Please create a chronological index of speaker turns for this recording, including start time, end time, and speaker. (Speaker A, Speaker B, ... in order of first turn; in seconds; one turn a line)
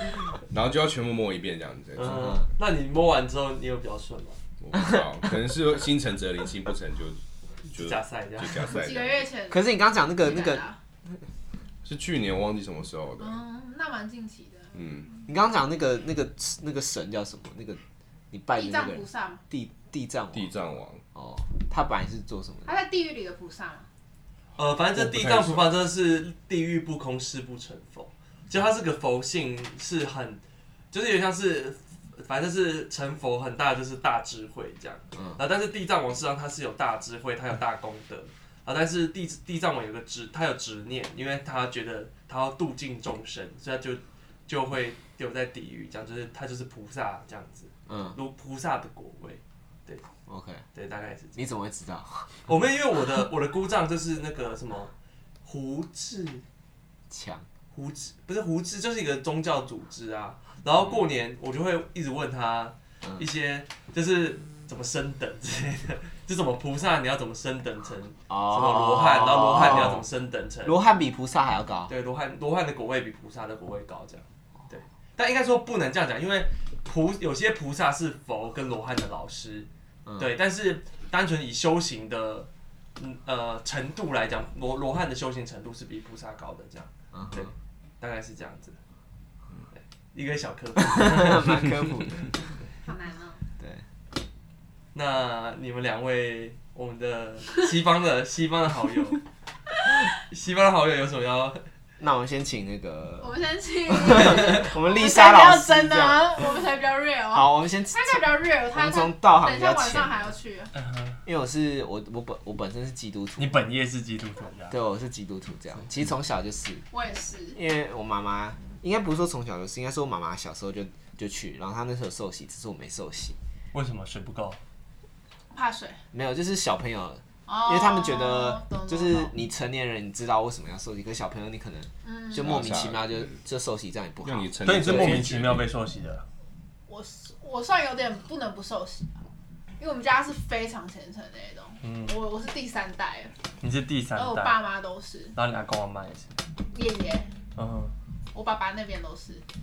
Speaker A: 0.5-2.3
Speaker B: 2.0-4.4
Speaker C: 2.0-2.5
Speaker A: 4.6-7.2
Speaker C: 4.7-5.3
Speaker B: 7.7-8.7
Speaker A: 7.7-9.3
Speaker D: 8.7-10.8
Speaker C: 9.5-10.7
Speaker A: 11.8-13.4
Speaker D: 13.2-15.2
Speaker A: 14.7-15.1
Speaker C: 15.3-17.8
Speaker C: 18.3-20.5
Speaker D: 18.6-19.4
Speaker A: 20.3-21.0
Speaker C: 21.1-22.7
Speaker D: 22.7-23.9
Speaker B: 24.6-30.4
Speaker A: 24.9-25.7
Speaker B: 30.9-50.0
Speaker C: 35.1-35.4
Speaker C: 47.9-48.2
Speaker C: 50.3-50.6
Speaker B: 50.7-51.4
Speaker C: 51.4-52.4
Speaker B: 52.5-54.9
Speaker B: 55.5-56.4
Speaker C: 57.1-57.5
Speaker B: 57.7-70.8
Speaker C: 63.0-63.3
Speaker C: 68.3-70.0
Speaker C: 70.7-71.9
Speaker B: 71.9-88.8
Speaker C: 80.0-80.3
Speaker C: 87.1-87.5
Speaker B: 90.1-91.7
Speaker C: 90.8-92.3
Speaker D: 92.8-93.4
Speaker C: 93.6-93.8
Speaker B: 94.9-99.2
Speaker B: 99.8-101.6
Speaker C: 102.0-103.4
Speaker D: 103.2-110.7
Speaker C: 103.9-106.5
Speaker C: 107.3-110.3
Speaker B: 110.8-111.2
Speaker C: 111.2-113.6
Speaker B: 113.4-114.8
Speaker C: 114.7-116.8
Speaker D: 116.9-117.6
Speaker C: 117.5-123.4
Speaker B: 123.7-124.6
Speaker D: 125.5-126.0
Speaker C: 126.1-135.2
Speaker D: 127.5-129.3
Speaker D: 132.0-132.7
Speaker A: 132.4-133.4
Speaker A: 134.2-135.7
Speaker B: 134.6-136.2
Speaker D: 136.9-139.1
Speaker D: 139.8-143.3
Speaker B: 141.8-142.2
Speaker B: 143.6-144.6
Speaker D: 144.2-145.3
Speaker B: 145.3-146.4
Speaker D: 146.7-147.3
Speaker B: 147.6-147.9
Speaker D: 148.3-149.4